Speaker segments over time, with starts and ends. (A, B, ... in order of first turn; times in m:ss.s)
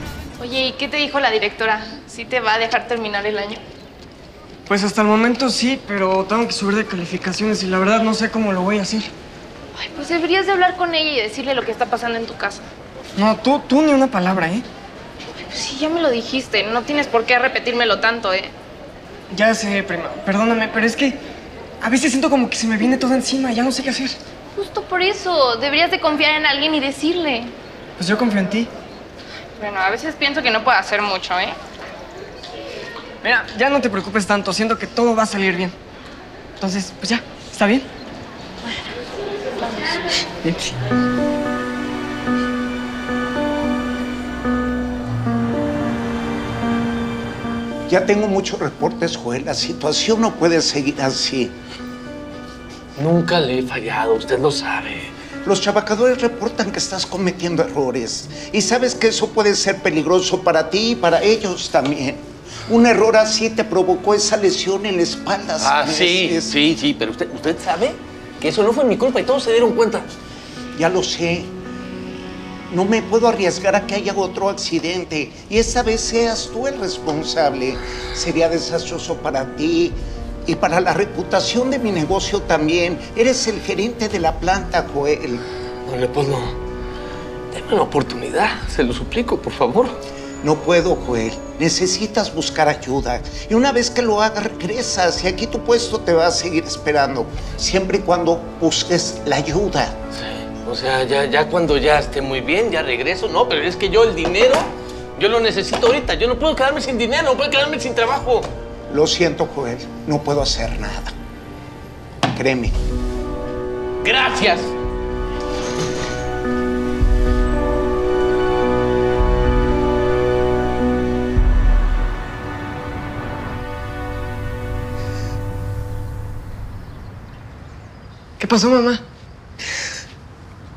0:00.4-0:03.6 A
0:04.7-0:09.1 B
0:09.8-0:12.7 A
0:13.2-0:14.6 B
0:15.5-0:18.5 A
0:19.3-0:21.2 B
0:21.8-0:24.2 B
0:24.6-0:27.5 A
0:28.0-0:28.7 B
0:29.6-0:31.6 A
0:33.2-0:35.8 B
0:36.6-0:37.9 B
0:40.4-0:40.7 B
0:47.9-0:51.5 C
0:53.0-0:55.1 D
0:55.4-1:06.6 C
1:05.6-1:10.1 D
1:10.8-1:11.5 C
1:12.7-1:25.4 C
1:25.9-1:26.6 D
1:27.5-1:30.0 D
1:30.4-1:40.0 C
1:40.1-1:48.5 D
1:48.9-1:51.2 C
1:52.3-1:52.8 C
1:54.0-1:54.7 D
2:08.4-2:09.0 B